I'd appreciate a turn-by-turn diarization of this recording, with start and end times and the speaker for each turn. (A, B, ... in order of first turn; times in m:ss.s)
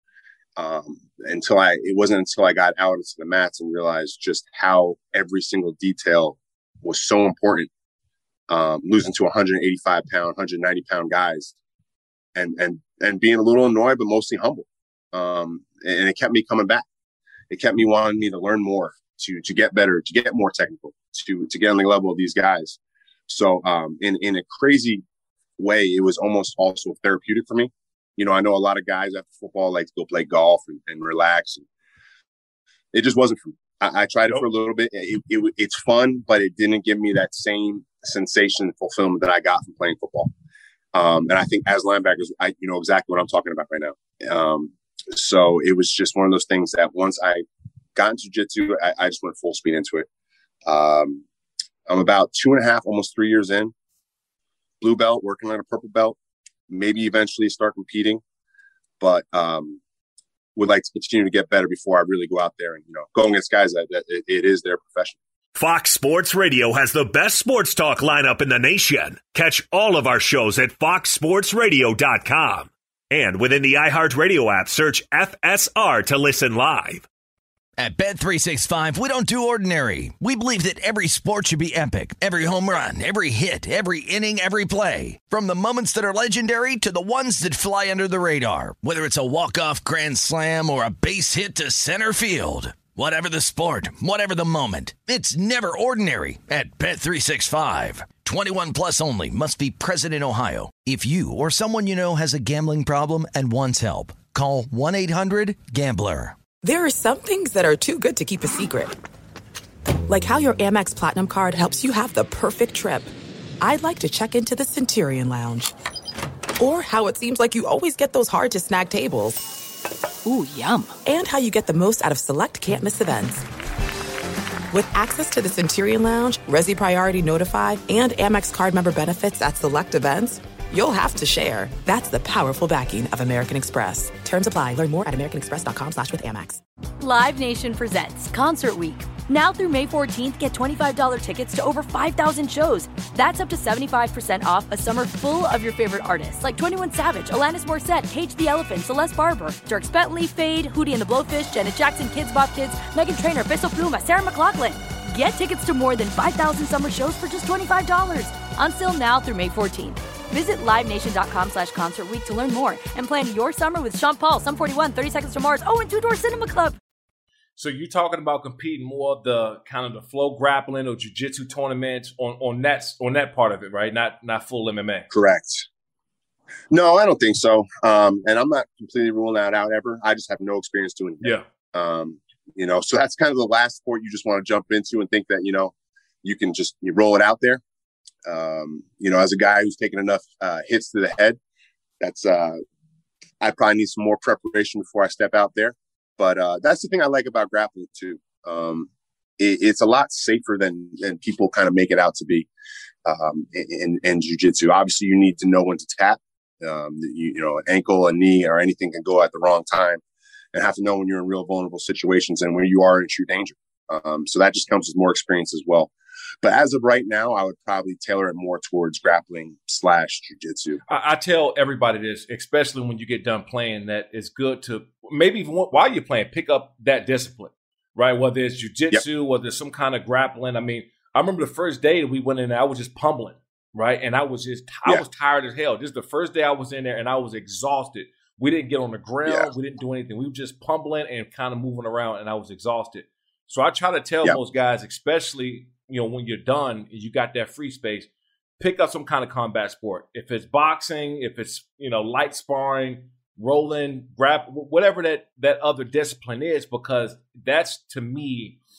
0:00.6-0:07.7 A
0:08.5-0:11.6 A
0:12.3-0:16.8 A
0:17.5-0:25.0 A
0:25.6-0:31.6 A
0:32.9-0:40.3 A
0:40.9-0:50.1 A
0:50.6-0:51.2 A
0:51.9-0:53.7 A
0:54.8-0:56.2 A
0:56.7-0:58.2 A
0:59.0-0:59.8 A
1:00.5-1:05.2 A
1:05.5-1:17.0 B
1:17.8-1:46.3 C
1:46.6-1:48.9 D
1:50.1-1:55.7 D
1:56.6-1:59.4 D
2:00.2-2:00.9 E
2:01.0-2:03.4 D
2:04.7-2:16.6 D
2:17.0-2:46.8 E
2:47.6-2:55.1 F
2:55.1-2:55.6 A
2:56.7-3:07.6 A
3:08.2-3:11.4 A
3:12.0-3:12.6 A
3:13.4-3:22.5 A
3:23.0-3:30.0 A
3:30.5-3:40.8 A
3:40.9-4:18.6 F